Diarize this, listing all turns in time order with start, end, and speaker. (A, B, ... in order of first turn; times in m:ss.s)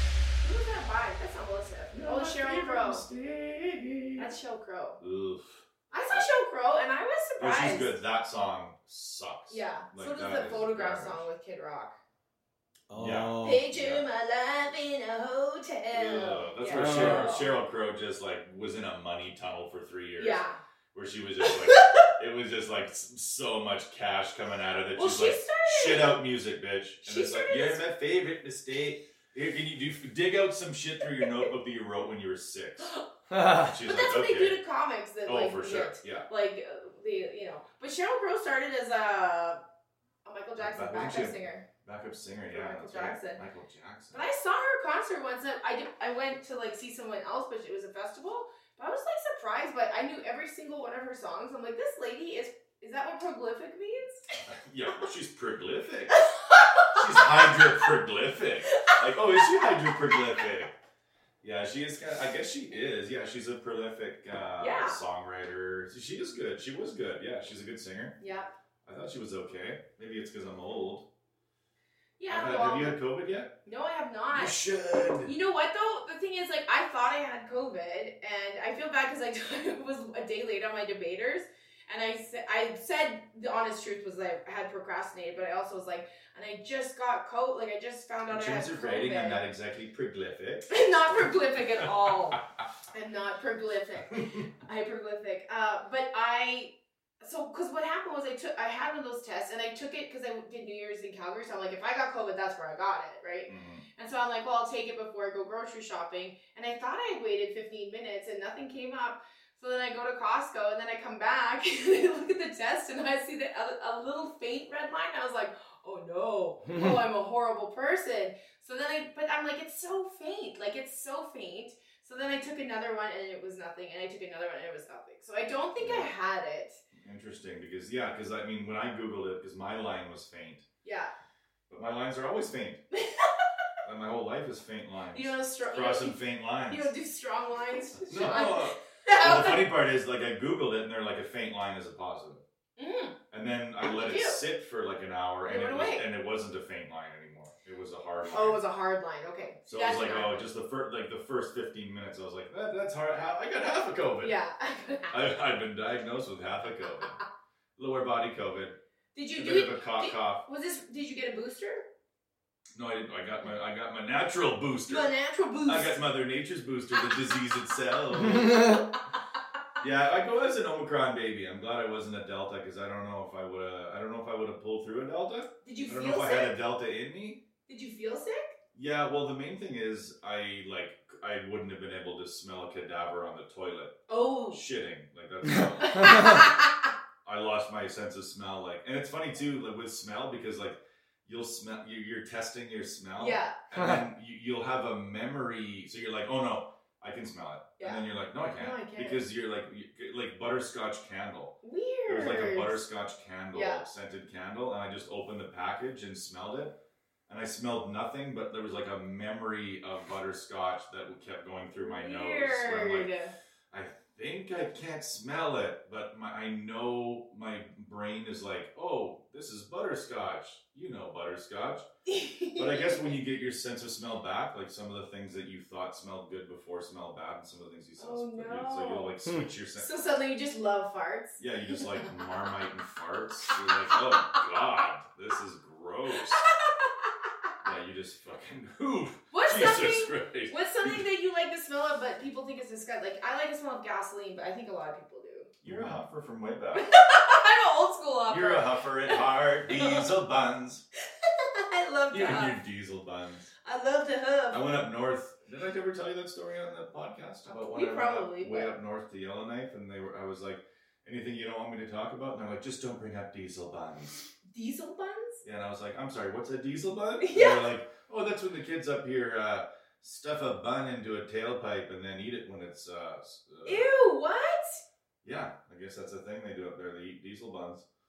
0:00.4-0:03.0 A
0:01.9-0:04.2 B
0:04.2-0:05.0 A
0:05.0-0:06.3 C
0:05.9-0:08.0 A
0:07.4-0:11.2 C
0:09.5-0:12.0 A
0:12.9-0:13.6 B
0:12.9-0:14.0 C
0:13.4-0:17.5 A
0:15.9-0:20.4 C
0:16.7-0:17.3 B
0:20.2-0:20.6 A
0:20.9-0:32.9 C
0:21.4-0:22.0 A
0:24.9-0:26.2 A
0:27.0-0:27.8 A
0:33.3-0:33.7 B
0:33.6-0:34.6 C
0:33.8-0:39.6 A
0:35.2-0:36.3 C
0:40.2-0:41.6 A
0:40.6-0:44.2 C
0:42.5-0:43.4 A
0:44.1-0:54.3 A
0:54.5-0:56.2 C
0:56.1-0:57.6 A
0:56.9-1:00.7 C
0:58.7-1:00.1 A
1:01.4-1:08.2 C
1:04.6-1:05.0 A
1:08.2-1:08.5 A
1:08.8-1:11.0 C
1:12.2-1:13.0 A
1:12.3-1:13.5 C
1:13.6-1:14.6 A
1:14.3-1:15.3 C
1:15.2-1:29.4 A
1:28.3-1:30.7 C
1:30.7-1:32.4 A
1:31.8-1:32.4 C
1:32.9-2:06.8 A
1:43.5-1:43.8 C
2:05.8-2:06.1 C
2:06.9-2:10.6 C
2:10.8-2:11.1 A
2:11.7-2:12.8 C
2:12.9-2:13.4 A
2:13.8-2:16.9 C
2:15.1-2:19.6 A
2:18.0-2:22.4 C
2:22.8-2:23.2 A
2:23.3-2:28.6 C
2:23.8-2:24.4 A
2:25.4-2:26.1 A
2:28.3-2:30.4 A
2:29.6-2:34.3 C
2:34.2-2:35.1 A
2:35.1-2:37.2 C
2:37.8-2:38.8 C
2:39.1-2:41.8 A
2:39.4-2:40.4 C
2:42.7-2:45.1 C
2:44.9-2:46.0 A
2:45.6-2:48.8 C
2:48.2-2:49.0 A
2:49.8-2:57.4 C
2:55.6-2:56.5 A
2:57.7-2:58.6 A
2:58.7-3:03.9 C
3:04.1-3:04.6 A
3:04.5-3:06.4 C
3:05.4-3:06.4 B
3:05.8-3:06.8 A
3:07.2-3:21.5 C
3:13.2-3:13.5 A
3:17.8-3:18.0 A
3:18.6-3:19.2 A
3:21.6-3:22.8 A
3:22.1-3:26.7 C
3:23.5-3:23.8 A
3:27.3-3:33.1 C
3:31.8-3:33.3 A
3:33.7-3:41.9 C
3:42.0-3:43.2 A
3:42.6-3:49.9 C
3:48.0-3:49.1 A
3:49.8-3:52.2 A
3:51.4-3:56.4 C
3:53.8-3:54.4 A
3:56.3-3:57.1 A
3:57.6-4:01.0 C
3:59.3-4:06.0 A
4:05.6-4:06.8 C
4:06.7-4:10.1 A
4:08.3-4:10.8 C
4:11.2-4:12.6 A
4:12.1-4:13.5 C
4:13.6-4:14.6 A
4:14.5-4:24.2 C
4:17.4-4:18.7 A
4:24.5-4:25.4 A
4:25.4-4:33.9 C
4:27.2-4:27.7 A
4:33.6-4:34.8 A
4:35.2-4:37.8 C